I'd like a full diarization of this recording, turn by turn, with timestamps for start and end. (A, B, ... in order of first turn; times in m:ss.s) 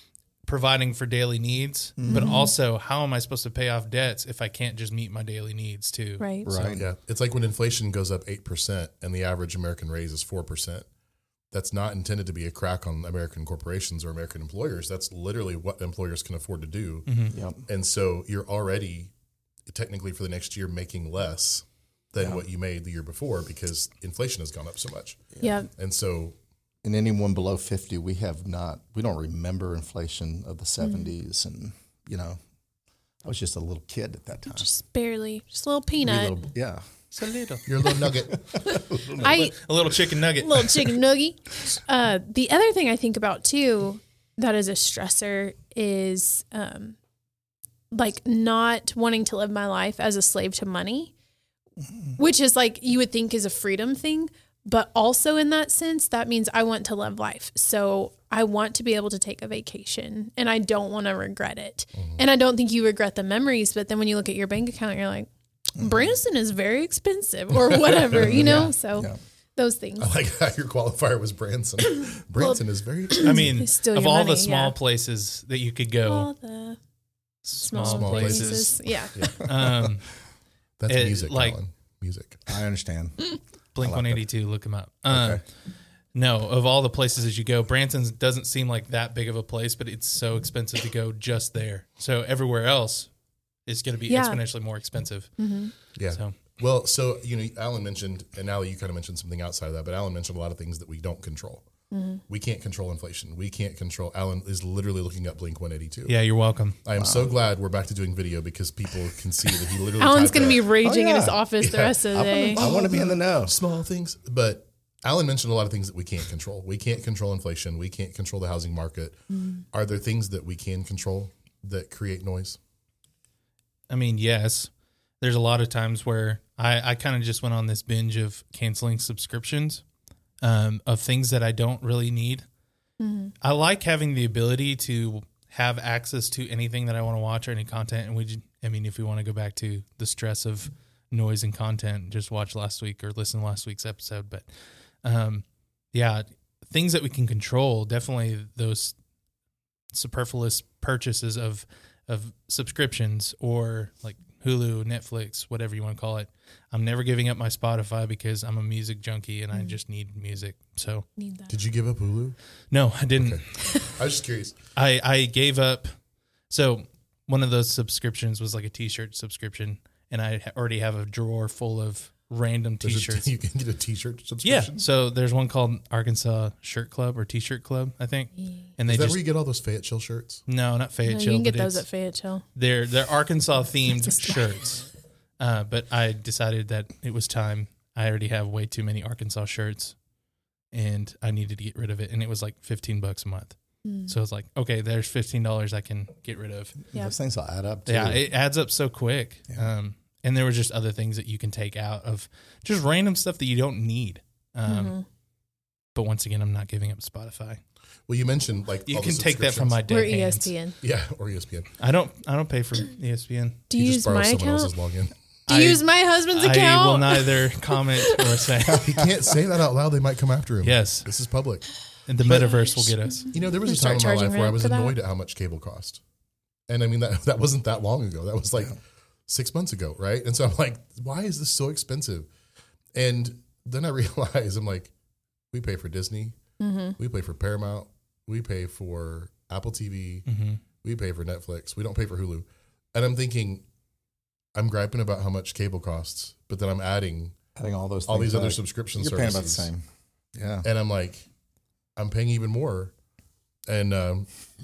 0:00.4-0:06.7 A
0:02.0-0:02.4 B
0:02.1-0:02.5 C
0:06.2-0:06.5 C
0:06.4-0:06.8 B
0:06.8-0:10.9 D
0:11.5-0:17.1 D
0:17.1-0:17.3 A
0:17.3-0:17.6 B
0:17.6-0:19.1 D
0:19.7-0:25.2 D
0:25.4-0:25.7 C
0:25.8-0:26.4 D
0:26.8-0:32.4 B
0:30.8-0:31.1 C
0:33.2-0:34.7 B
0:34.5-0:36.4 C
0:36.0-0:36.8 B
0:37.1-0:37.6 A
0:37.6-0:38.6 D
0:38.0-0:39.5 B
0:39.2-0:39.6 C
0:39.2-0:41.0 A
0:40.4-0:47.0 C
0:47.9-0:51.1 C
0:52.2-1:10.1 C
1:01.9-1:02.2 D
1:05.8-1:06.1 B
1:07.9-1:08.6 D
1:08.1-1:09.2 B
1:08.4-1:08.7 A
1:10.0-1:13.6 D
1:12.4-1:14.8 C
1:13.2-1:16.3 A
1:16.1-1:16.8 C
1:17.4-1:18.8 A
1:17.6-1:19.2 C
1:17.8-1:19.5 D
1:19.4-1:20.1 A
1:20.8-1:22.6 D
1:20.9-1:21.6 A
1:22.5-1:24.2 B
1:23.8-1:25.4 A
1:25.1-1:25.4 B
1:26.1-1:33.1 A
1:33.6-1:35.4 A
1:34.1-1:34.4 C
1:35.4-1:35.7 C
1:36.0-1:41.6 D
1:41.9-1:42.2 C
1:42.3-1:46.2 D
1:46.1-1:46.8 A
1:46.8-1:50.7 D
1:47.0-1:47.3 B
1:50.0-1:52.6 C
1:50.8-1:51.4 B
1:51.6-2:02.6 D
1:52.1-1:53.6 B
1:59.3-1:59.6 C
2:03.9-2:09.8 A
2:10.4-2:12.4 A
2:13.0-2:13.3 C
2:13.4-2:24.5 A
2:25.0-2:28.9 A
2:29.9-2:41.1 A
2:41.2-2:41.5 C
2:41.5-2:42.4 D
2:42.7-2:43.7 A
2:43.2-2:44.6 D
2:44.8-2:45.9 A
2:46.5-2:53.3 A
2:52.8-2:54.8 D
2:54.4-2:59.2 A
2:58.9-3:00.4 D
3:00.5-3:01.8 A
3:01.1-3:02.4 C
3:02.6-3:04.8 A
3:03.9-3:04.4 B
3:05.4-3:10.0 A
3:10.7-3:13.6 A
3:13.8-3:14.1 C
3:14.1-3:16.8 A
3:16.8-3:18.2 B
3:17.9-3:25.0 A
3:24.6-3:25.0 C
3:25.9-3:27.6 A
3:28.1-3:29.8 D
3:28.9-3:30.5 A
3:29.9-3:30.8 C
3:30.8-3:31.7 D
3:31.8-3:33.6 A
3:33.7-3:34.7 C
3:33.8-3:35.1 D
3:35.5-3:37.4 C
3:35.5-3:39.0 A
3:38.0-3:38.4 C
3:38.7-3:39.1 B
3:38.7-3:46.0 D
3:40.6-3:41.1 A
3:42.1-3:43.3 A
3:43.0-3:44.9 C
3:46.7-3:52.3 D
3:52.9-3:54.9 D
3:55.5-3:56.4 D
3:56.6-3:57.0 C
3:57.0-4:00.3 D
4:00.3-4:00.6 A
4:00.8-4:03.6 D
4:04.6-4:07.4 D
4:07.6-4:09.8 B
4:08.1-4:09.7 D
4:10.4-4:10.7 B
4:10.6-4:11.3 D
4:12.0-4:12.9 D
4:13.7-4:14.3 D